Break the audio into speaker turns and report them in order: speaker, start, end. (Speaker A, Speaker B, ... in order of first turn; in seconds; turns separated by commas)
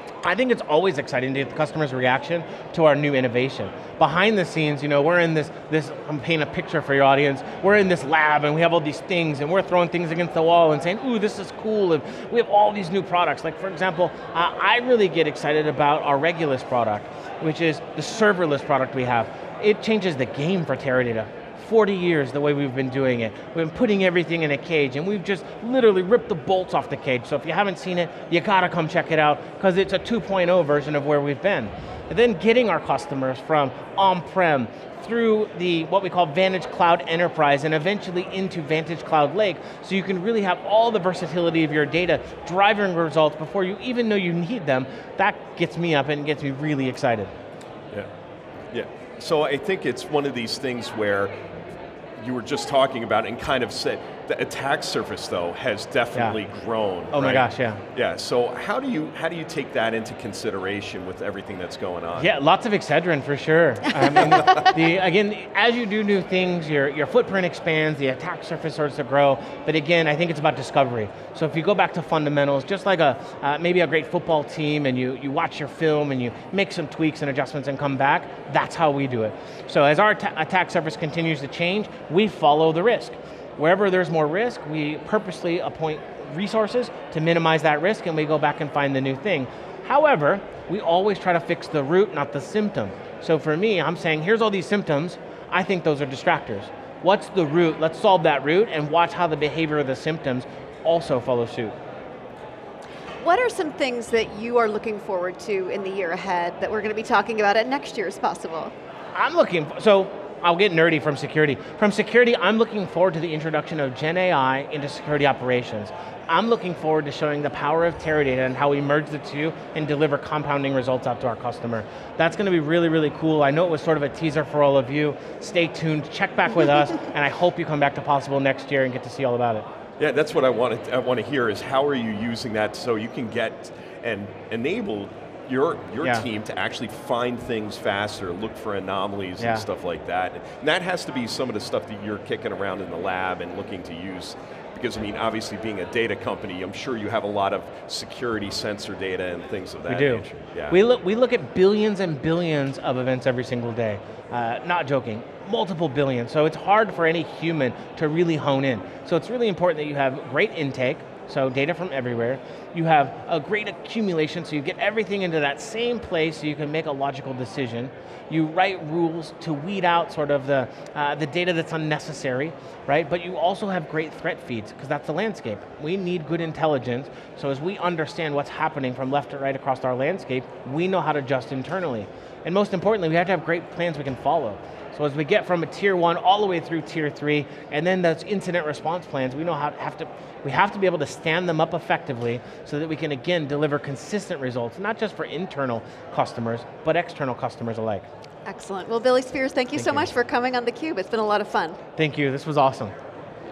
Speaker A: 0.2-47.3, Speaker B: 48.7-51.3, Speaker B: 52.2-62.3, Speaker A: 57.1-57.8, Speaker A: 62.2-101.8, Speaker C: 103.2-108.7, Speaker A: 109.1-129.7, Speaker B: 130.0-150.8, Speaker A: 139.4-139.7, Speaker A: 149.9-198.1, Speaker C: 198.5-201.8, Speaker A: 199.8-200.1, Speaker A: 202.0-202.9